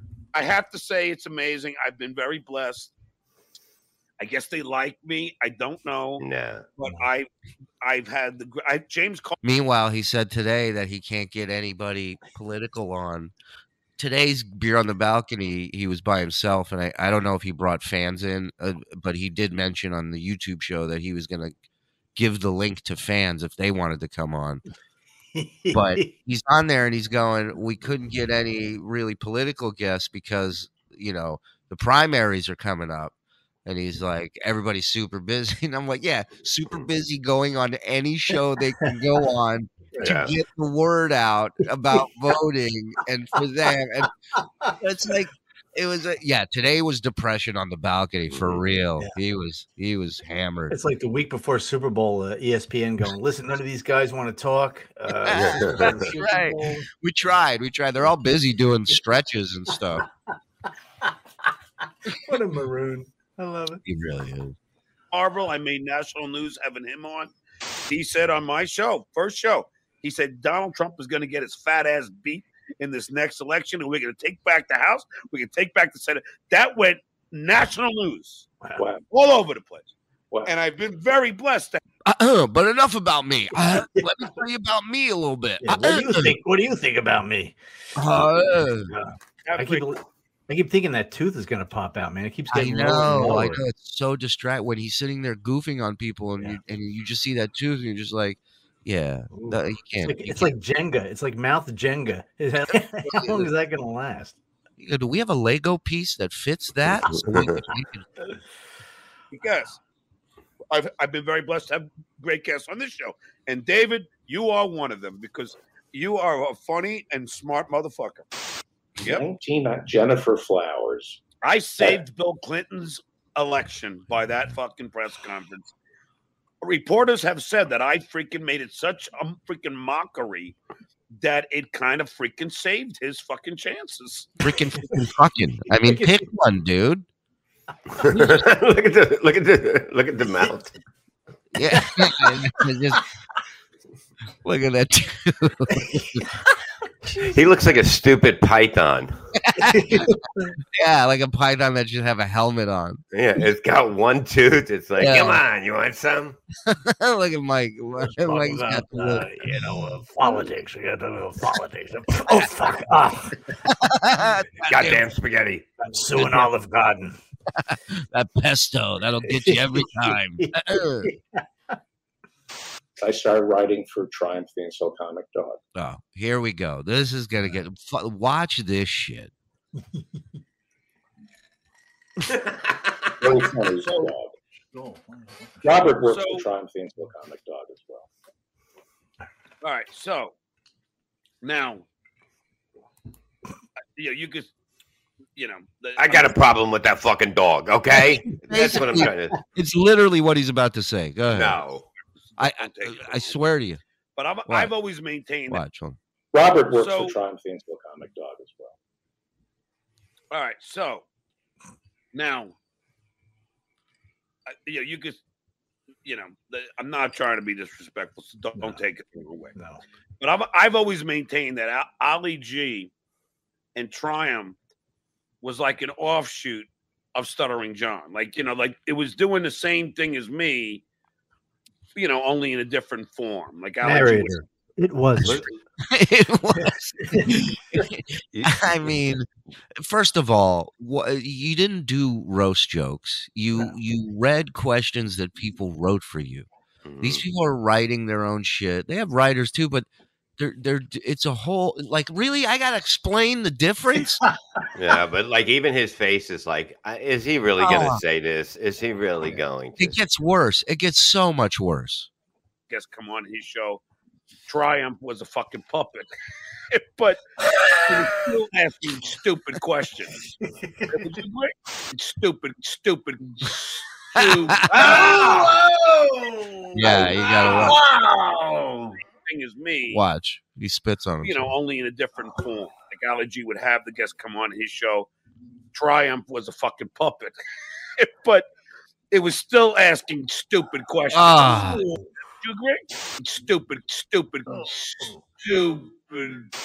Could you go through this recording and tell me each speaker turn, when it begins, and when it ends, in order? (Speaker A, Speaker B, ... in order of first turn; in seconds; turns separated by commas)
Speaker A: 0.3-2.9, Speaker A: 4.2-6.2, Speaker B: 6.2-6.7, Speaker A: 6.8-7.3, Speaker A: 7.8-9.3, Speaker C: 9.4-13.3, Speaker C: 14.0-21.6, Speaker C: 22.2-24.6, Speaker D: 25.4-26.1, Speaker C: 25.7-33.1, Speaker C: 33.6-44.1, Speaker B: 40.0-40.3, Speaker C: 44.7-50.8, Speaker B: 48.3-48.6, Speaker D: 50.7-56.9, Speaker C: 55.2-60.1, Speaker B: 55.3-56.1, Speaker D: 62.1-63.8, Speaker C: 63.9-64.6, Speaker A: 65.1-67.3, Speaker A: 67.9-78.5, Speaker E: 78.8-79.0, Speaker A: 79.1-79.9, Speaker A: 80.5-81.8, Speaker C: 82.0-86.4, Speaker D: 83.6-84.1, Speaker D: 85.6-87.6, Speaker C: 88.0-88.9, Speaker D: 88.9-93.6, Speaker A: 89.5-89.9, Speaker C: 92.5-100.5, Speaker D: 99.3-104.4, Speaker C: 103.0-103.5, Speaker C: 104.8-108.1, Speaker B: 107.0-107.6, Speaker A: 109.3-109.8, Speaker A: 110.7-118.3, Speaker E: 119.0-121.2, Speaker A: 121.4-125.7, Speaker A: 126.6-130.6, Speaker A: 131.2-134.4, Speaker C: 134.4-137.1, Speaker D: 135.8-136.2, Speaker B: 137.9-140.7, Speaker C: 141.5-143.0, Speaker C: 144.4-146.3, Speaker D: 147.1-147.3, Speaker B: 147.2-149.2, Speaker C: 149.4-150.2, Speaker D: 149.6-150.5, Speaker C: 150.7-153.0, Speaker B: 153.1-156.4, Speaker C: 155.0-155.4, Speaker C: 156.6-159.7, Speaker D: 158.0-163.4, Speaker C: 163.6-165.1, Speaker B: 164.6-165.7, Speaker D: 165.8-167.2, Speaker C: 166.2-166.4, Speaker C: 167.5-171.1, Speaker D: 169.3-171.4, Speaker E: 173.0-175.6, Speaker C: 175.8-179.3, Speaker E: 183.2-184.3, Speaker A: 183.8-184.1, Speaker D: 184.7-185.8, Speaker E: 185.6-188.1, Speaker A: 186.1-186.5, Speaker A: 189.6-190.3, Speaker A: 191.4-191.8, Speaker A: 194.0-194.5, Speaker A: 195.4-196.3, Speaker B: 196.0-199.4, Speaker C: 198.3-201.6, Speaker B: 201.3-201.9, Speaker A: 202.4-203.4, Speaker C: 202.4-203.8, Speaker A: 204.2-205.6, Speaker C: 204.5-204.7, Speaker C: 205.5-206.0, Speaker E: 206.3-208.8, Speaker A: 206.7-207.1, Speaker A: 210.3-211.1, Speaker A: 212.1-212.6, Speaker A: 214.5-215.2, Speaker A: 216.1-219.6, Speaker D: 218.6-218.8, Speaker D: 219.6-219.8, Speaker A: 220.2-222.9, Speaker A: 223.8-224.6, Speaker A: 225.4-230.8, Speaker A: 232.0-234.4, Speaker D: 233.8-235.4, Speaker B: 235.2-235.6, Speaker C: 235.8-239.3, Speaker D: 237.1-237.5, Speaker B: 238.3-239.0, Speaker C: 239.8-246.5, Speaker B: 246.8-247.2, Speaker C: 247.0-249.9, Speaker C: 250.4-254.2, Speaker D: 254.2-254.7, Speaker B: 254.8-260.0, Speaker C: 257.6-258.0, Speaker C: 259.8-262.1, Speaker A: 262.7-263.8, Speaker A: 264.5-266.1, Speaker A: 266.7-267.2, Speaker A: 267.7-270.3, Speaker D: 270.4-271.0, Speaker A: 270.9-275.4, Speaker C: 274.1-275.1, Speaker D: 274.7-278.4, Speaker C: 276.7-277.8, Speaker A: 277.5-277.8, Speaker A: 279.1-280.0, Speaker C: 279.9-281.5, Speaker A: 281.2-285.1, Speaker A: 285.7-287.4, Speaker A: 288.0-288.5, Speaker A: 289.1-291.6, Speaker C: 291.1-291.9, Speaker D: 291.5-292.1, Speaker A: 292.4-296.5, Speaker D: 294.6-295.2